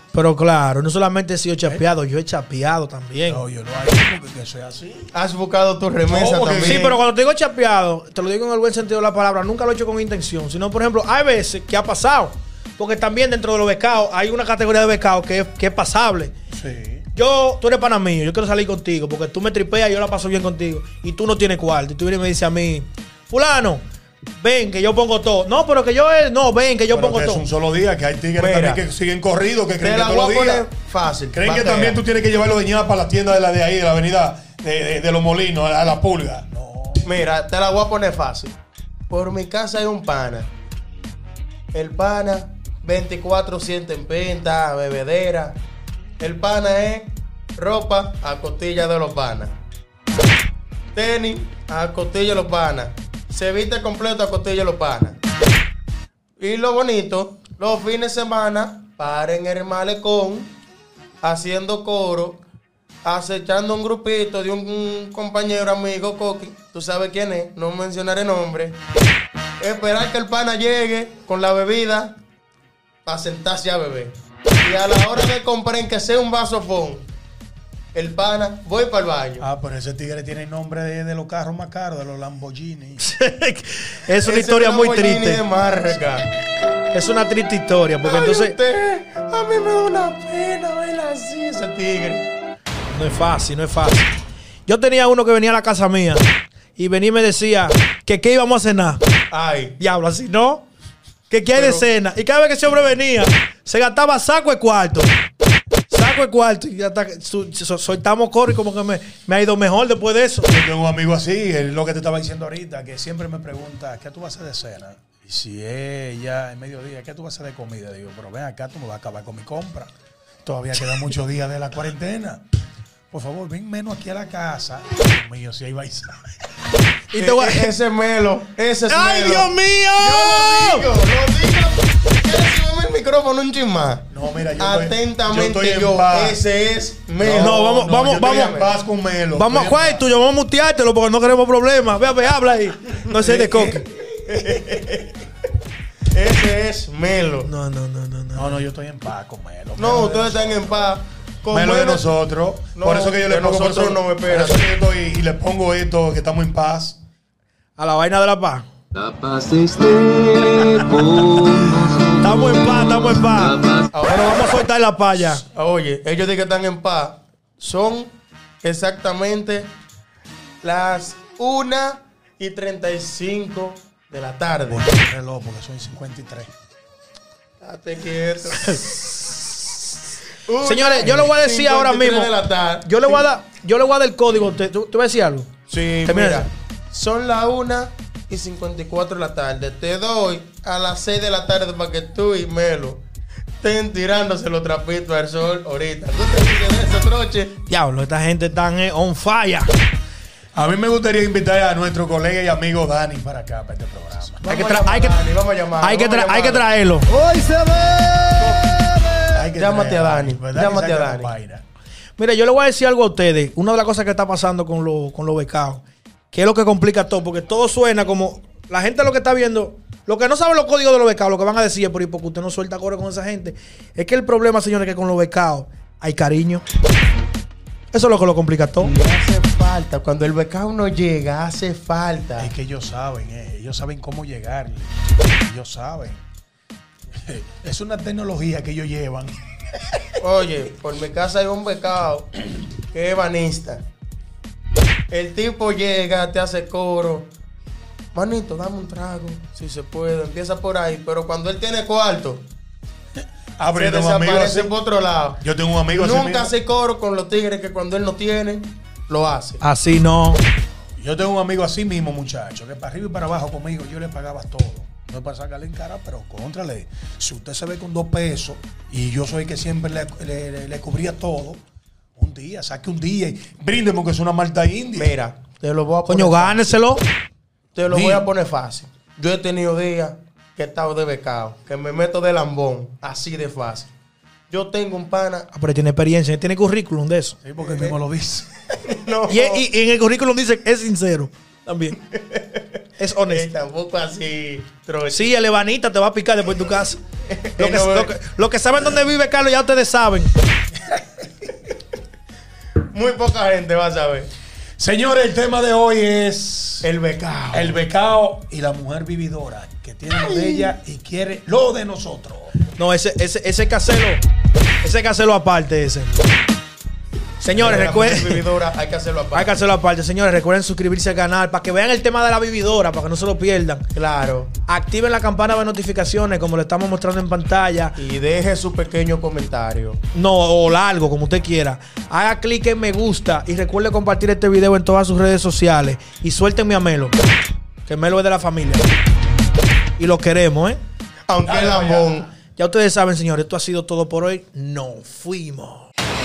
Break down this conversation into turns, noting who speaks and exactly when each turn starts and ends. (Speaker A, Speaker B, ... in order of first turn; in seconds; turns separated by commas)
Speaker A: 0.1-3.4, Speaker B: 3.3-5.1, Speaker C: 5.1-7.0, Speaker B: 6.1-6.9, Speaker A: 6.6-16.3, Speaker B: 16.5-17.1, Speaker A: 17.1-23.8, Speaker A: 24.4-27.4, Speaker B: 26.9-30.6, Speaker C: 28.4-28.8, Speaker C: 29.8-32.0, Speaker B: 31.3-37.1, Speaker C: 37.0-38.5, Speaker C: 39.1-40.5, Speaker C: 41.7-45.6, Speaker C: 46.2-49.6, Speaker C: 50.9-55.2, Speaker C: 56.4-60.5, Speaker C: 61.2-62.4, Speaker C: 63.0-68.8, Speaker C: 69.6-72.2, Speaker C: 73.0-77.1, Speaker C: 77.9-79.4, Speaker B: 79.4-83.0, Speaker A: 83.0-85.4, Speaker C: 84.2-86.3, Speaker A: 86.9-88.5, Speaker C: 88.0-92.3, Speaker A: 92.9-94.1, Speaker A: 94.7-96.2, Speaker A: 96.8-99.0, Speaker C: 99.3-99.8, Speaker A: 99.8-100.7, Speaker A: 101.3-105.1, Speaker C: 101.5-101.8, Speaker A: 105.9-110.5, Speaker B: 110.5-119.9, Speaker B: 120.4-122.4, Speaker B: 123.1-126.2, Speaker A: 127.1-127.7, Speaker C: 127.2-134.1, Speaker A: 128.9-130.8, Speaker B: 134.1-136.4, Speaker C: 134.6-138.7, Speaker B: 137.2-140.1, Speaker A: 137.3-138.5, Speaker A: 139.3-143.8, Speaker B: 143.1-143.8, Speaker C: 144.3-145.2, Speaker C: 146.1-147.5, Speaker A: 147.4-148.6, Speaker B: 148.3-150.9, Speaker C: 149.8-152.1, Speaker B: 151.5-157.0, Speaker C: 152.8-154.7, Speaker A: 157.8-158.7, Speaker D: 158.9-163.9, Speaker A: 162.2-165.4, Speaker C: 163.9-164.4, Speaker C: 165.4-169.7, Speaker C: 170.6-174.9, Speaker B: 174.7-176.5, Speaker C: 177.6-178.9, Speaker A: 178.6-179.3, Speaker C: 180.5-183.3, Speaker A: 180.6-182.3, Speaker A: 182.8-185.5, Speaker C: 185.7-193.0, Speaker A: 186.1-186.5, Speaker C: 193.6-197.5, Speaker A: 197.7-199.7, Speaker B: 200.5-204.4, Speaker C: 204.4-206.7, Speaker A: 204.4-205.2, Speaker A: 205.8-209.3, Speaker B: 209.3-211.6, Speaker C: 209.5-211.3, Speaker A: 212.2-226.6, Speaker A: 227.9-228.9, Speaker C: 228.8-232.5, Speaker B: 232.4-236.2, Speaker B: 237.1-240.1, Speaker C: 240.2-243.8, Speaker C: 245.1-247.3, Speaker C: 248.1-252.4, Speaker B: 253.6-254.7, Speaker C: 253.7-259.6, Speaker B: 255.4-256.5, Speaker A: 259.6-260.4, Speaker B: 261.0-271.6, Speaker B: 272.2-275.1, Speaker C: 274.9-276.8, Speaker A: 276.1-277.0, Speaker C: 277.7-283.9, Speaker B: 277.8-278.3, Speaker C: 284.5-285.5, Speaker A: 285.5-287.4, Speaker B: 287.4-288.5, Speaker C: 287.6-287.9, Speaker C: 288.8-289.6, Speaker A: 289.3-292.0, Speaker C: 292.1-292.6, Speaker A: 293.0-293.5, Speaker C: 293.3-295.3, Speaker A: 295.1-297.0, Speaker C: 297.3-298.1, Speaker A: 297.6-300.3, Speaker C: 302.9-304.3, Speaker B: 304.8-306.9, Speaker C: 306.8-307.8, Speaker B: 307.5-312.6, Speaker C: 310.3-310.7, Speaker A: 312.7-314.2, Speaker A: 314.8-316.1, Speaker A: 317.4-318.4, Speaker C: 317.6-319.6, Speaker A: 319.3-323.9, Speaker C: 323.9-324.5, Speaker A: 324.6-327.9, Speaker C: 327.9-330.0, Speaker A: 330.1-337.1, Speaker A: 337.9-338.8, Speaker A: 340.0-340.8, Speaker C: 341.3-342.3, Speaker B: 341.4-342.3, Speaker A: 342.6-345.9